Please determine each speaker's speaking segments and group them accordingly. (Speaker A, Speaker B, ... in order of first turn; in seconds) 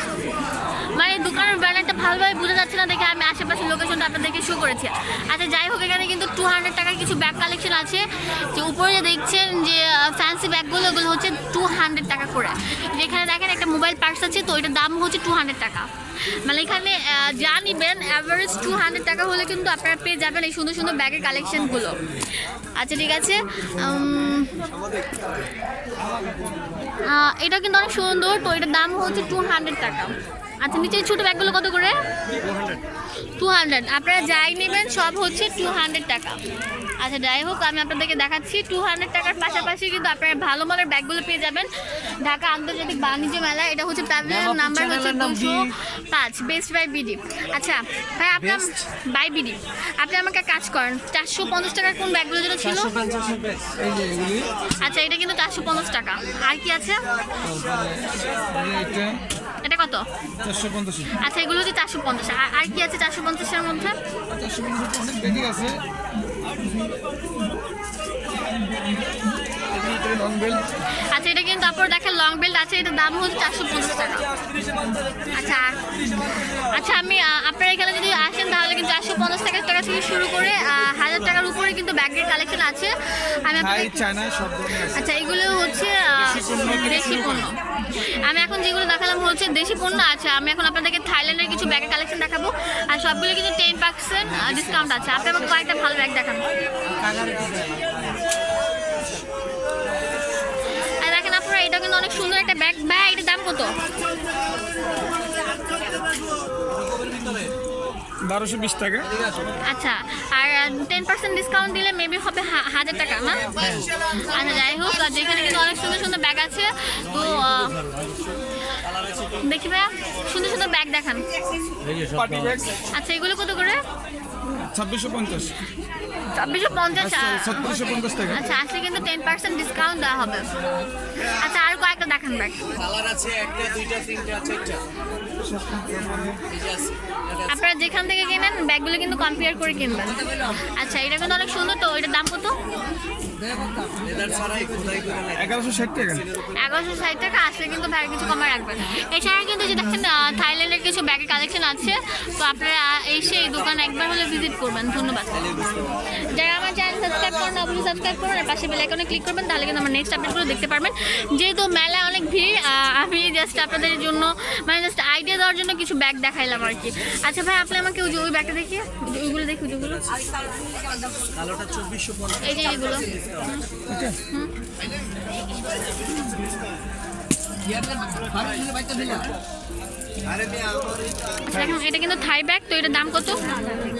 Speaker A: 0.9-15.9, 16.4-22.0, 22.8-24.6, 27.0-32.0, 33.4-36.4, 37.0-41.7, 42.2-52.9, 54.8-57.0, 59.6-60.0, 61.1-64.0, 71.0-74.3, 75.3-84.0, 84.8-96.4, 101.0-103.8, 109.6-117.8, 119.4-121.2, 122.9-123.8, 126.3-130.5, 131.2-132.7, 137.5-142.6, 146.4-170.1, 172.4-173.7, 174.3-174.5, 181.5-183.8
Speaker B: 32.4-32.8, 44.3-45.6, 52.9-53.7, 97.0-97.9, 118.8-119.4, 121.8-122.6, 132.7-134.8, 136.5-137.5, 143.6-145.6, 171.1-173.3, 177.8-179.3
Speaker C: 53.0-53.2, 53.7-54.5, 57.4-59.2, 60.4-61.2, 64.3-65.8, 69.7-70.7, 83.5-85.0, 86.2-87.5, 108.2-109.1, 113.6-113.8, 122.2-122.8, 124.5-125.5, 126.9-128.4, 135.4-136.4, 145.4-146.2, 173.9-174.2